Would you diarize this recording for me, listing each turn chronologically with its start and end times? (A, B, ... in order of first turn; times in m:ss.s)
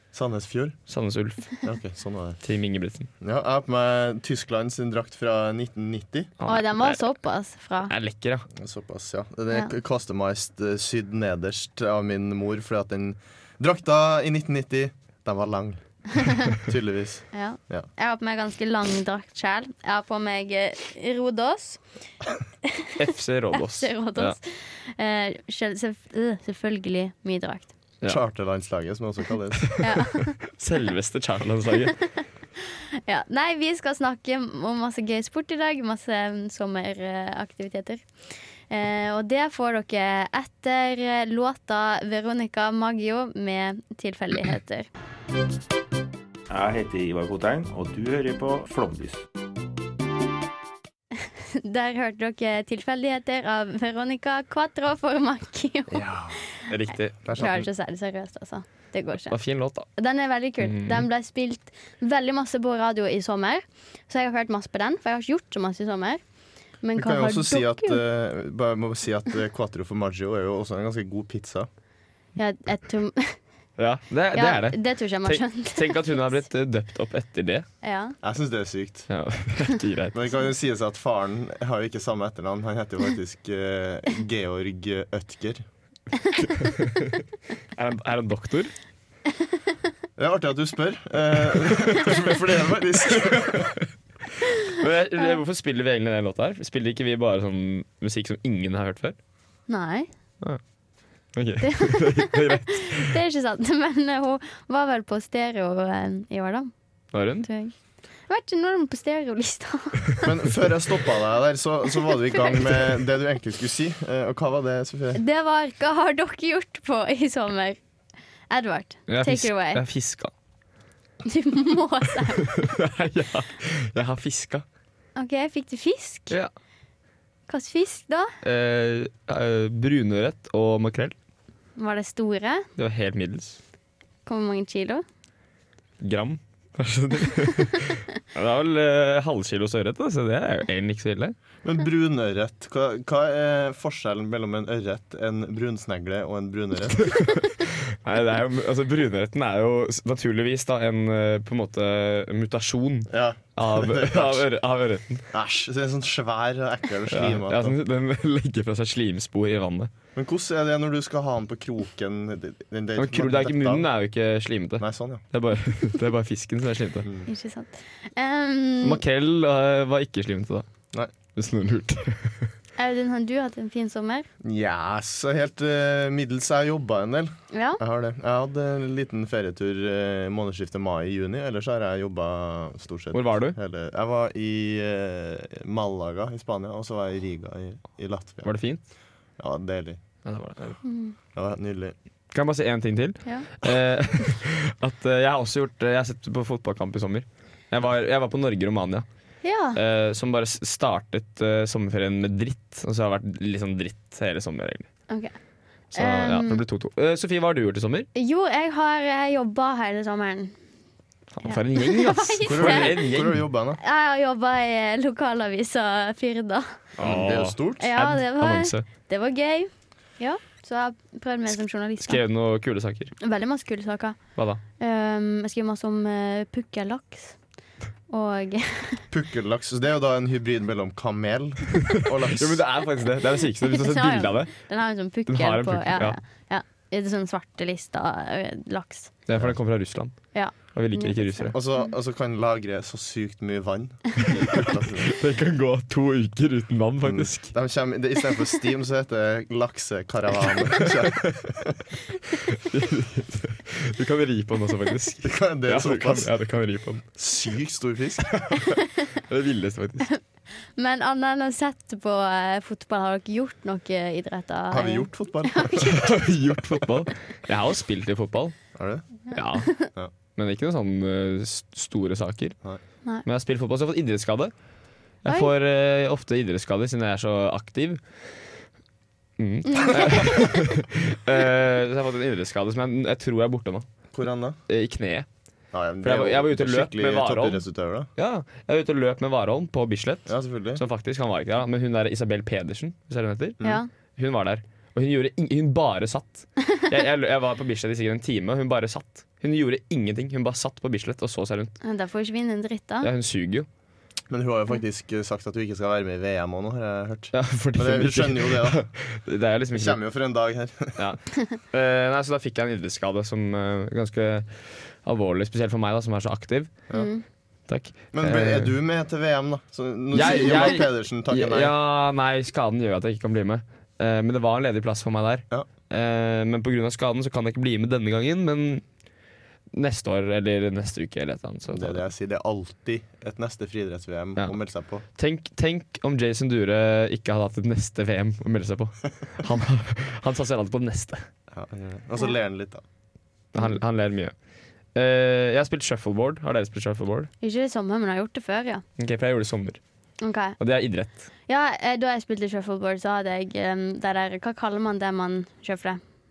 0:00.1-0:00.8 A
0:00.9-0:01.6 B
0:01.6-0:02.4 A
0:02.4-0:03.1 B
0:03.2-0:06.3 A
0:06.4-0:07.0 B
0:06.4-0:07.9 C
0:07.9-0:08.5 B
0:08.6-0:17.9 A
0:17.3-0:21.8 C
0:23.0-0:24.4 B
0:23.6-0:27.7 C
0:28.0-0:29.8 A
0:29.8-0:30.4 C
0:30.6-0:32.0 B
0:33.1-0:38.1 C
0:38.7-0:44.9 C
0:46.5-0:49.2 D
0:51.6-0:56.1 C
0:55.9-0:56.4 A
0:56.7-0:57.5 B
0:57.2-0:57.6 A
0:57.3-0:59.4 C
0:59.3-0:59.9 B
1:00.0-1:06.2 C
1:00.6-1:01.1 B
1:06.8-1:08.0 C
1:07.0-1:11.7 A
1:12.4-1:13.4 C
1:13.8-1:17.7 B
1:14.3-1:16.2 C
1:17.8-1:18.2 C
1:18.2-1:19.1 A
1:19.1-1:20.2 B
1:20.1-1:25.6 A
1:27.8-1:28.7 B
1:30.2-1:33.7 A
1:33.1-1:33.8 B
1:34.7-1:39.2 B
1:39.7-1:40.1 C
1:41.3-1:43.1 B
1:41.6-1:46.7 C
1:47.1-1:47.5 B
1:47.4-1:47.7 C
1:48.3-1:50.2 C
1:50.2-1:55.2 A
1:55.2-1:57.8 C
1:58.5-1:59.8 C
1:59.1-2:00.3 B
2:01.2-2:02.5 C
2:02.6-2:04.6 B
2:05.2-2:06.4 C
2:07.5-2:08.3 C
2:08.4-2:11.1 B
2:11.8-2:12.7 C
2:12.8-2:13.6 B
2:14.3-2:15.0 C
2:16.0-2:21.4 B
2:21.6-2:27.1 A
2:27.0-2:35.2 B
2:33.1-2:34.5 A
2:35.3-2:37.8 A
2:37.1-2:39.9 B
2:40.2-2:43.9 A
2:43.0-2:47.1 B
2:44.8-2:45.2 A
2:47.3-2:49.0 C
2:48.8-2:50.6 B
2:51.4-2:52.5 B
2:52.8-2:54.3 C
2:54.4-3:08.5 A
2:57.5-2:57.8 C
3:03.1-3:03.6 B
3:08.4-3:08.8 B
3:09.4-3:10.0 A
3:10.2-3:10.8 B
3:10.8-3:11.1 C
3:11.4-3:12.0 A
3:12.3-3:19.0 B
3:19.4-3:19.8 C
3:19.8-3:24.9 B
3:26.0-3:26.6 C
3:26.0-3:28.1 B
3:28.2-3:30.5 C
3:31.4-3:33.4 B
3:31.4-3:33.1 C
3:32.5-3:33.8 A
3:33.8-3:36.7 C
3:37.0-3:38.8 B
3:37.0-3:37.8 A
3:37.8-3:42.2 C
3:42.0-3:43.1 B
3:43.2-3:44.2 C
3:44.8-3:47.4 C
3:48.1-3:49.0 C
3:49.1-3:52.6 A
3:52.3-3:54.5 B
3:53.7-3:59.1 C
3:55.3-3:56.2 B
3:59.3-4:01.6 B
4:00.3-4:01.5 C
4:01.5-4:05.2 A
4:05.1-4:07.5 B
4:07.0-4:11.8 A
4:12.6-4:17.0 B
4:15.2-4:16.3 A
4:17.2-4:18.5 A
4:19.2-4:20.1 B
4:20.1-4:26.1 C
4:24.7-4:26.2 A
4:26.0-4:28.6 B
4:28.8-4:29.0 A
4:29.3-4:29.9 C
4:29.3-4:29.7 B
4:30.4-4:32.6 B
4:33.2-4:34.5 B
4:35.2-4:38.0 B
4:39.4-4:43.9 B
4:39.7-4:40.4 C
4:44.1-4:44.6 A
4:44.7-4:45.3 B
4:45.7-4:48.1 A
4:46.0-4:47.6 B
4:48.2-4:53.6 B
4:50.3-4:50.8 A
4:53.6-4:53.9 C
4:54.2-5:01.8 B
5:01.8-5:03.1 C
5:03.0-5:03.7 B
5:04.3-5:08.8 A
5:07.3-5:10.0 B
5:09.7-5:11.0 A
5:11.0-5:16.8 B
5:16.9-5:17.2 C
5:17.7-5:18.7 B
5:18.1-5:21.7 A
5:20.1-5:28.8 B
5:29.7-5:32.0 B
5:31.7-5:35.0 A
5:35.2-5:41.3 B
5:41.5-5:42.8 A
5:43.5-5:44.3 B
5:45.0-5:47.3 B
5:47.4-5:48.8 C
5:49.0-5:49.8 B
5:50.2-5:50.6 C
5:50.6-5:51.2 B
5:51.5-5:56.0 C